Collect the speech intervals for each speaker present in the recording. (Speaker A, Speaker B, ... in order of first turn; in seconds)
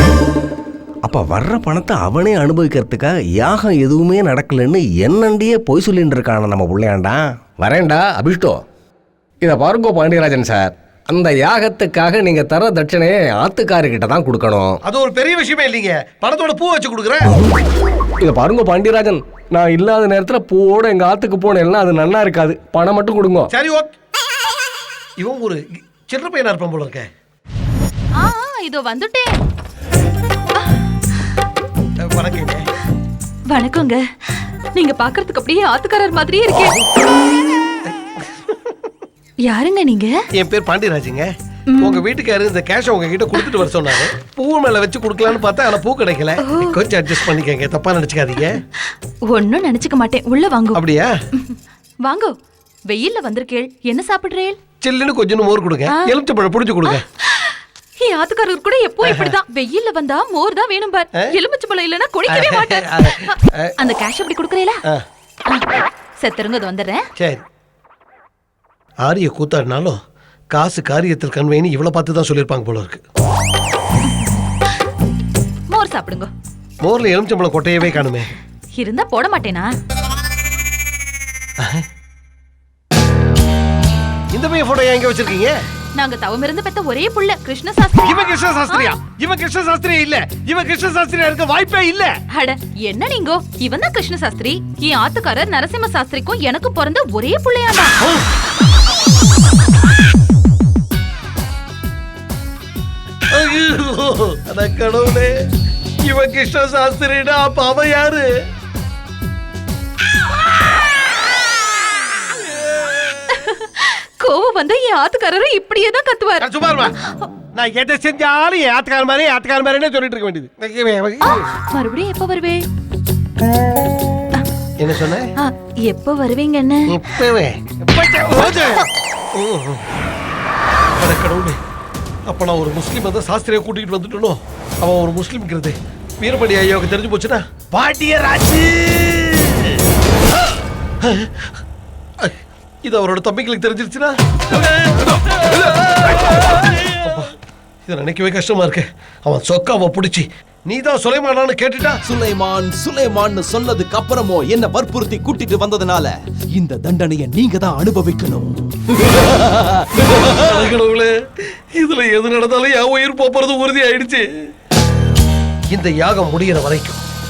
Speaker A: 1.0-8.6, 9.4-14.7, 18.2-23.5
Speaker B: 14.8-17.2, 23.5-23.9, 25.2-27.1, 32.0-32.6, 40.4-41.3, 41.8-48.6, 50.7-51.1, 54.8-57.0, 62.3-63.7, 69.0-70.0, 70.5-73.0, 76.8-78.2, 84.3-85.5, 88.0-92.1, 103.3-105.3, 106.0-108.3, 116.4-116.9, 117.5-121.3, 124.8-125.2, 126.9-128.8, 129.3-129.8, 131.0-131.6, 132.3-137.4, 141.0-141.5, 142.8-144.1, 147.9-152.0, 160.2-164.3, 165.7-167.0
Speaker C: 28.2-29.3, 33.5-34.0, 34.7-36.7, 39.5-40.1, 46.4-46.7, 49.3-50.8, 51.4-52.3, 52.9-54.6, 57.3-63.3, 63.8-64.8, 66.2-67.0, 75.7-76.3, 78.8-79.7, 86.0-88.9, 92.3-98.0, 113.3-116.4, 121.3-122.6, 125.4-126.9
Speaker D: 137.7-139.7
Speaker E: 152.0-158.5, 159.2-159.7